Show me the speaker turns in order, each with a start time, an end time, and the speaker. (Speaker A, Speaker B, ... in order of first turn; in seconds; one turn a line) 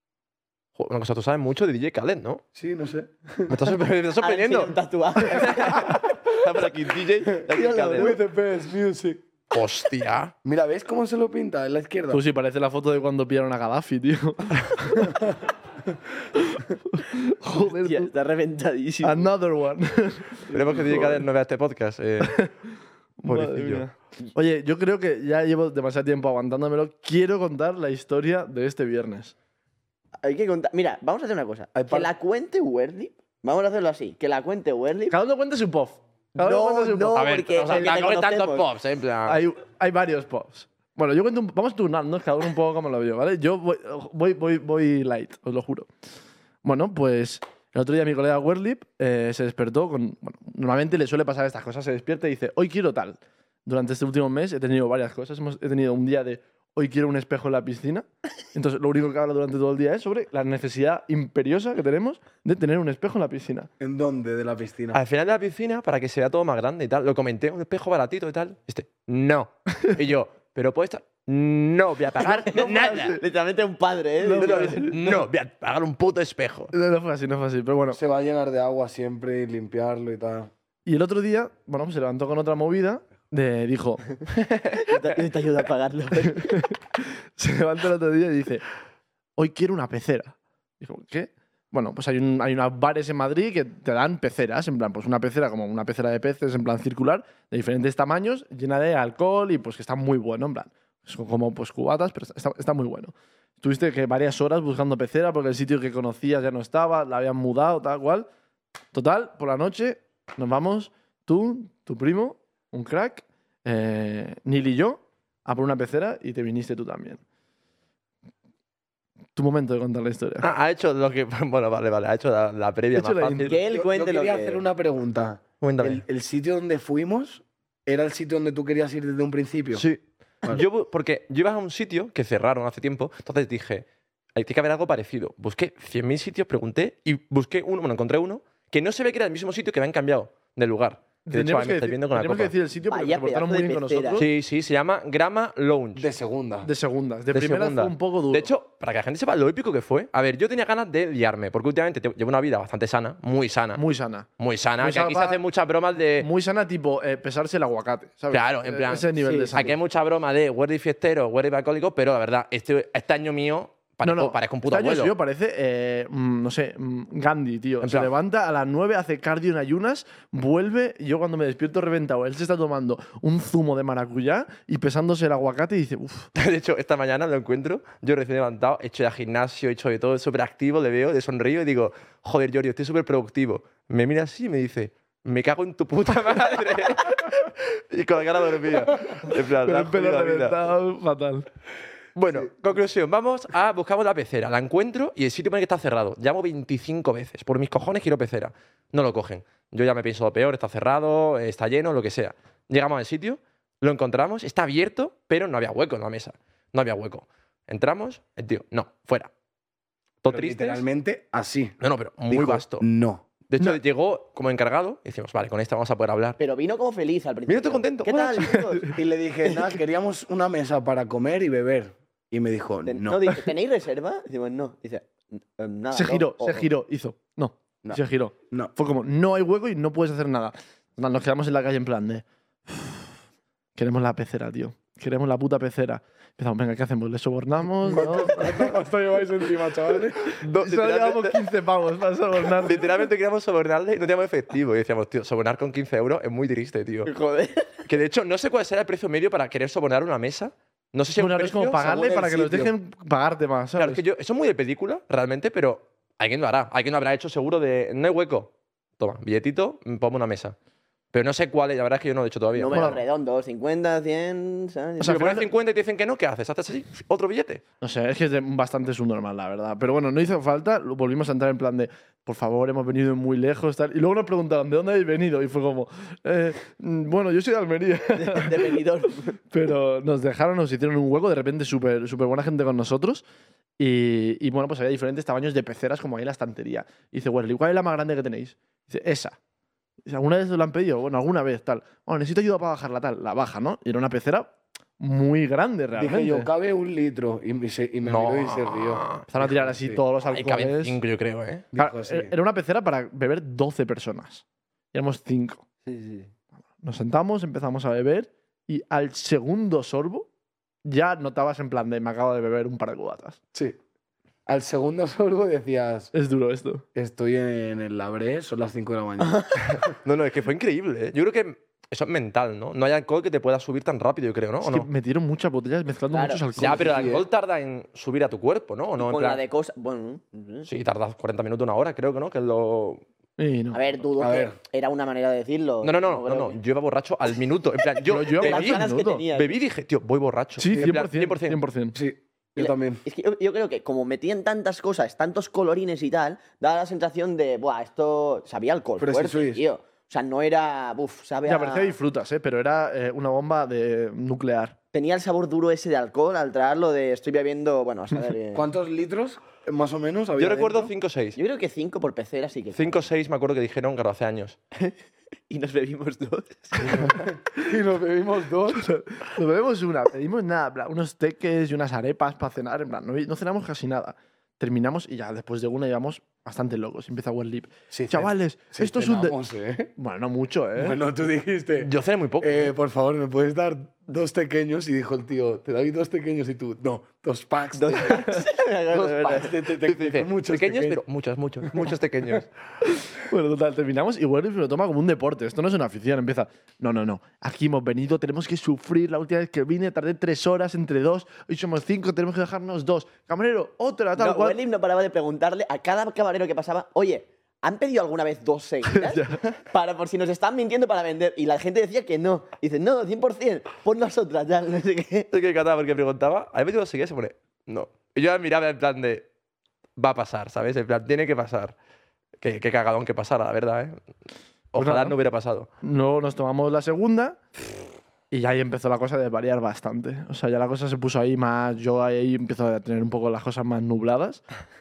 Speaker A: 0.8-2.4
Speaker B: 2.5-3.7
Speaker A: 3.5-8.2
Speaker C: 4.2-6.1
Speaker C: 7.3-8.2
Speaker B: 7.9-9.2
Speaker A: 9.5-10.3
Speaker B: 10.4-12.2
Speaker D: 12.1-15.2
Speaker D: 16.4-18.1
Speaker C: 17.6-19.3
Speaker D: 19.0-21.2
Speaker A: 20.5-22.5
Speaker D: 22.2-22.5
Speaker D: 23.2-29.3
Speaker A: 23.3-23.9
Speaker C: 30.2-35.2
Speaker B: 31.8-32.1
Speaker D: 35.1-37.2
Speaker C: 36.4-38.7
Speaker A: 37.1-39.4
Speaker D: 39.3-45.9
Speaker D: 46.6-63.7
Speaker B: 63.8-65.0
Speaker A: 64.9-73.2
Speaker C: 72.2-74.9
Speaker D: 72.5-73.2
Speaker D: 74.2-75.2
Speaker A: 74.4-76.7
Speaker D: 76.7-78.0
Speaker B: 77.9-80.5
Speaker D: 80.9-84.8
Speaker C: 84.8-86.6
Speaker D: 86.3-88.7
Speaker D: 89.4-108.3
Speaker D: 108.9-117.2
Speaker D: 119.4-120.5
Speaker A: 120.4-123.6
Speaker D: 123.0-123.6
Speaker C: 123.5-124.6
Speaker B: 123.7-129.8
Speaker A: 125.6-126.0
Speaker A: 129.7-142.5
Speaker D: 141.3-144.3
Speaker C: 142.9-144.3
Speaker A: 144.2-146.1
Speaker B: 146.0-146.7
Speaker D: 146.6-148.5
Speaker A: 147.3-153.8
Speaker D: 153.8-154.3
Speaker A: 154.4-156.3
Speaker D: 154.8-155.4
Speaker D: 156.2-159.8
Speaker A: 158.3-165.1
Speaker D: 164.0-176.3
Speaker A: 167.8-168.1
Speaker A: 176.4-190.6
Speaker D: 189.1-191.5
Speaker A: 192.2-209.3
Speaker A: 210.2-210.8
Speaker B: 210.3-211.8
Speaker A: 211.8-212.8
Speaker B: 212.3-213.2
Speaker A: 213.5-216.4
Speaker C: 216.4-219.0
Speaker A: 217.5-218.7
Speaker B: 219.0-223.4
Speaker C: 222.9-226.7
Speaker D: 225.9-233.1
Speaker B: 227.8-228.7
Speaker D: 233.8-238.7
Speaker B: 237.8-240.3
Speaker A: 240.3-241.4
Speaker D: 240.5-242.9
Speaker A: 242.6-247.1
Speaker C: 247.1-247.8
Speaker A: 247.9-251.8
Speaker D: 251.2-254.0
Speaker B: 251.8-252.7
Speaker A: 253.8-260.6
Speaker A: 261.1-263.0
Speaker C: 262.6-265.3
Speaker D: 262.7-263.0
Speaker D: 265.0-265.5
Speaker A: 265.0-267.6
Speaker D: 267.8-278.8
Speaker C: 278.1-279.4
Speaker D: 279.5-283.2
Speaker D: 283.8-289.4
Speaker D: 290.1-296.5
Speaker B: 296.0-300.0
Speaker A: 298.1-299.3
Speaker D: 299.3-301.0
Speaker A: 300.2-301.7
Speaker B: 301.7-302.4
Speaker D: 301.8-305.6
Speaker C: 305.9-306.3
Speaker D: 306.8-310.3
Speaker D: 310.9-313.4
Speaker B: 314.5-316.1
Speaker D: 316.1-316.8
Speaker B: 316.9-319.9
Speaker C: 319.2-319.5
Speaker A: 319.6-324.9
Speaker D: 324.6-327.1
Speaker C: 326.1-326.4
Speaker B: 326.6-327.2
Speaker A: 326.6-329.4
Speaker C: 329.0-330.7
Speaker A: 330.7-333.0
Speaker D: 333.4-333.8
Speaker C: 333.7-336.6
Speaker B: 334.2-334.6
Speaker A: 335.8-341.6
Speaker D: 338.1-339.2
Speaker C: 338.3-339.5
Speaker D: 340.6-342.0
Speaker B: 340.7-341.0
Speaker B: 341.9-343.0
Speaker C: 342.6-352.0
Speaker B: 349.0-349.6
Speaker D: 351.4-354.8
Speaker C: 354.9-358.7
Speaker B: 358.5-360.9
Speaker A: 360.4-361.4
Speaker C: 361.4-363.1
Speaker A: 362.7-364.6
Speaker C: 365.5-367.3
Speaker B: 366.9-368.8
Speaker D: 368.8-379.4
Speaker B: 377.9-379.9
Speaker D: 380.0-381.0
Speaker B: 380.8-391.0
Speaker A: 381.8-382.7
Speaker C: 387.8-389.5
Speaker A: 389.7-392.5
Speaker D: 392.9-404.6
Speaker C: 404.2-415.3
Speaker D: 408.9-409.5
Speaker A: 415.3-419.3
Speaker A: 420.0-421.7
Speaker A: 422.4-424.0
Speaker A: 424.7-425.7
Speaker D: 424.8-425.2
Speaker D: 425.8-427.4
Speaker D: 428.3-434.4